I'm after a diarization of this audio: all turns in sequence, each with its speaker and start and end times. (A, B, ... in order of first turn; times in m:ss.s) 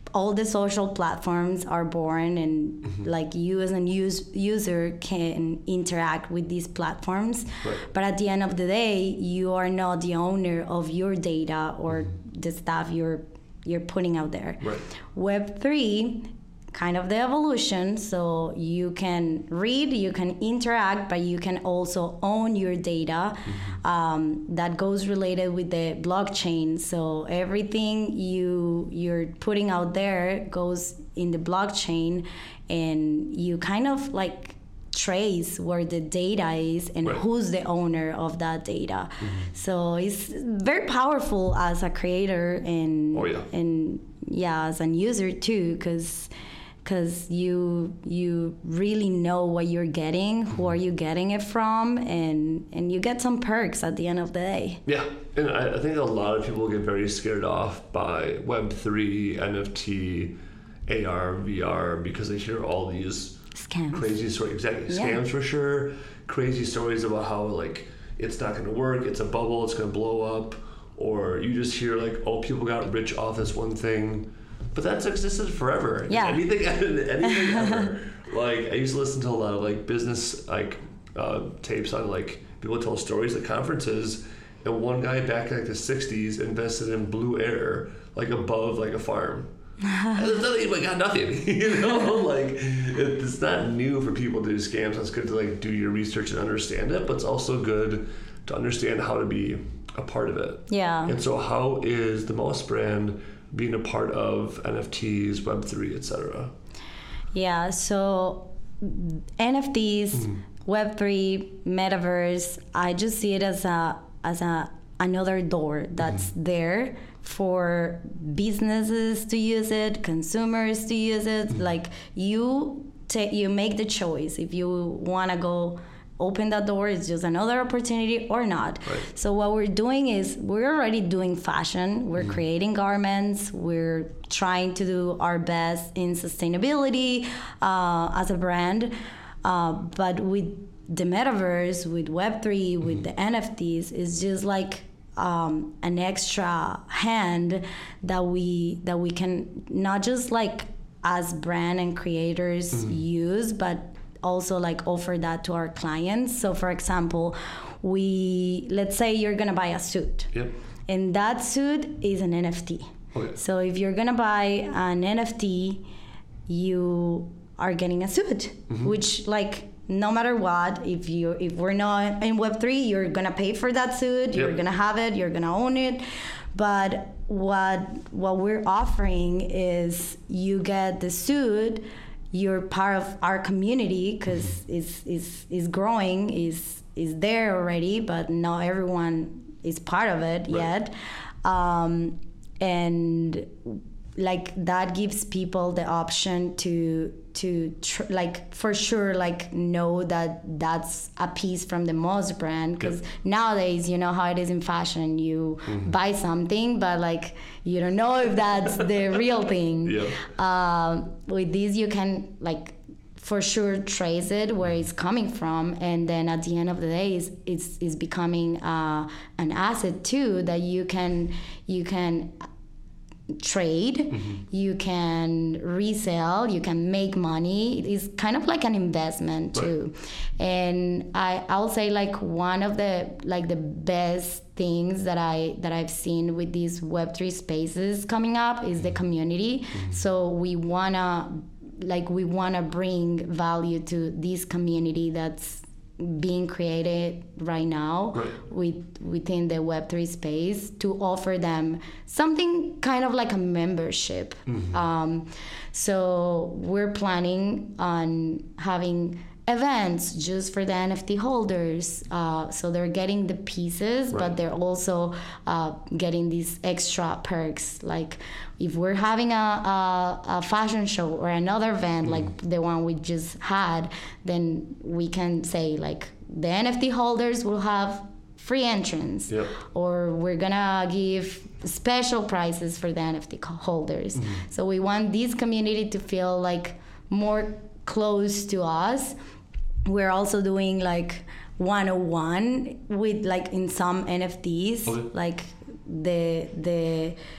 0:00.1-0:46.3 A
0:43.1-0:43.5 B
0:46.8-0:54.8 A
0:54.9-1:03.4 B
1:03.5-1:04.0 A
1:03.9-1:29.5 B
1:04.9-1:05.2 A
1:16.1-1:16.4 A
1:17.2-1:17.9 A
1:30.1-1:46.5 B
1:40.7-1:41.2 A
1:47.3-2:40.3 A
2:40.9-2:45.8 A
2:46.5-3:10.9 A
3:11.4-3:42.5 A
3:29.8-3:30.2 B
3:43.4-4:49.2 A
3:44.1-3:44.4 B
4:14.5-4:14.8 B
4:49.8-4:57.2 A